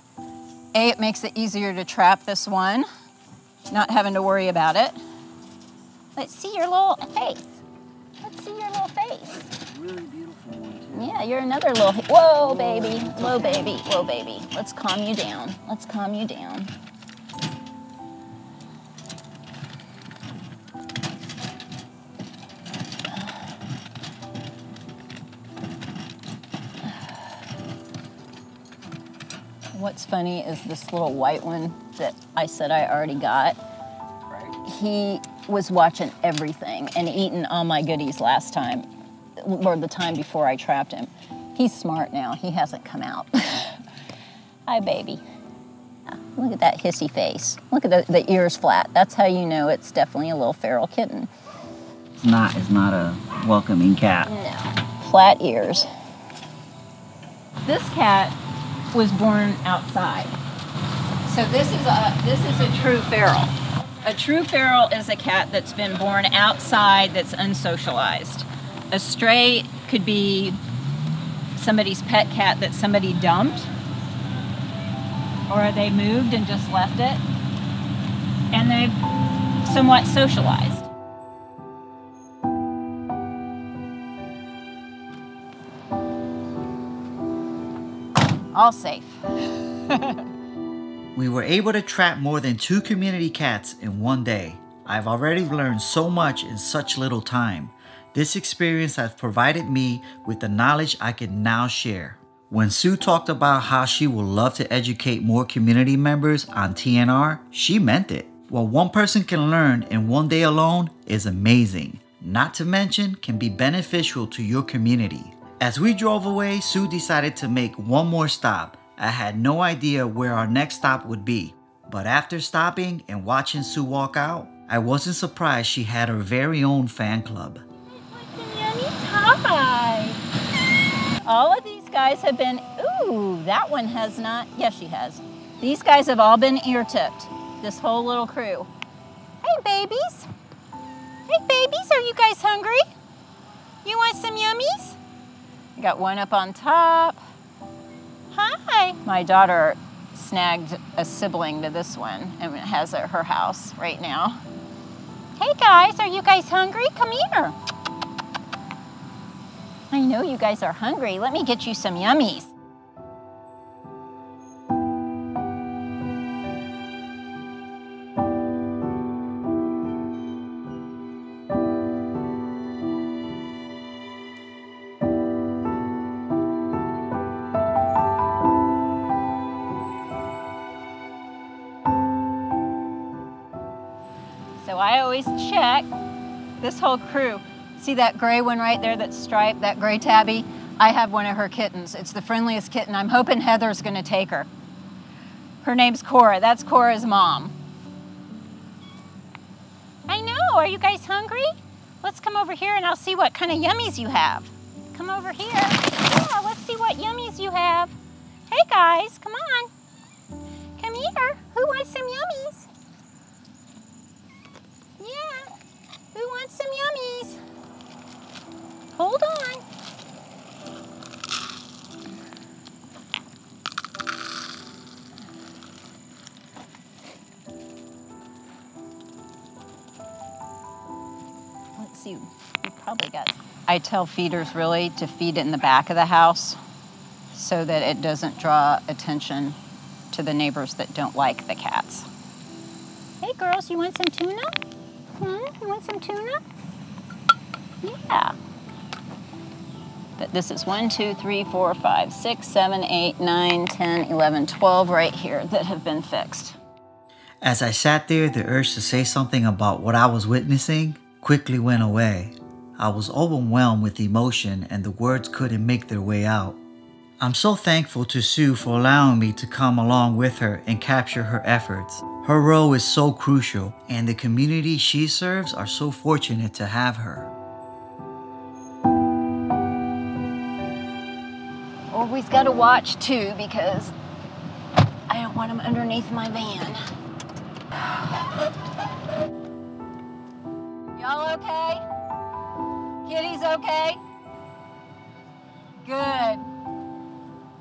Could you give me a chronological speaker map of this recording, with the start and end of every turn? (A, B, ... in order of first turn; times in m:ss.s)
0:00.7-0:02.9 A
0:03.7-0:05.0 A
0:06.2-0:07.6 A
0:08.2-0:09.5 A
0:09.7-0:11.1 B
0:10.9-0:16.7 A
0:12.5-0:13.5 B
0:29.7-0:33.6 A
0:34.6-0:38.9 A
0:39.4-0:43.8 A
0:44.7-0:45.2 A
0:46.1-0:51.3 A
0:52.2-0:54.3 B
0:54.2-0:55.9 A
0:57.6-0:58.4 A
0:58.9-1:00.3 A
1:01.3-1:10.6 A
1:11.6-1:13.7 A
1:15.5-1:17.2 A
1:18.5-1:19.0 A
1:19.6-1:20.9 A
1:28.5-1:29.2 A
1:29.9-1:30.2 A
1:31.1-2:07.6 B
2:07.9-2:10.2 A
2:11.2-2:18.7 A
2:19.4-2:20.3 A
2:21.3-2:22.9 A
2:23.8-2:25.0 A
2:25.8-2:27.2 A
2:28.3-2:34.4 A
2:35.4-2:37.6 A
2:39.9-2:42.5 A
3:04.6-3:05.9 A
3:06.6-3:14.5 A
3:15.6-3:17.6 A
3:20.1-3:28.0 A
3:28.5-3:29.7 A
3:30.8-3:32.7 A
3:35.0-3:35.5 A
3:36.1-3:37.4 A
3:39.0-3:39.6 A
3:51.8-3:56.6 A
3:57.3-3:59.6 A
4:00.1-4:02.1 A
4:03.2-4:04.6 A
4:05.2-4:06.4 A
4:07.8-4:08.4 A
4:10.2-4:16.6 A
4:17.4-4:26.6 B
4:27.2-4:37.3 B
4:41.9-4:43.9 A
4:45.1-4:46.8 A
4:51.0-4:51.8 A
4:53.1-4:54.0 A
4:55.8-4:56.5 A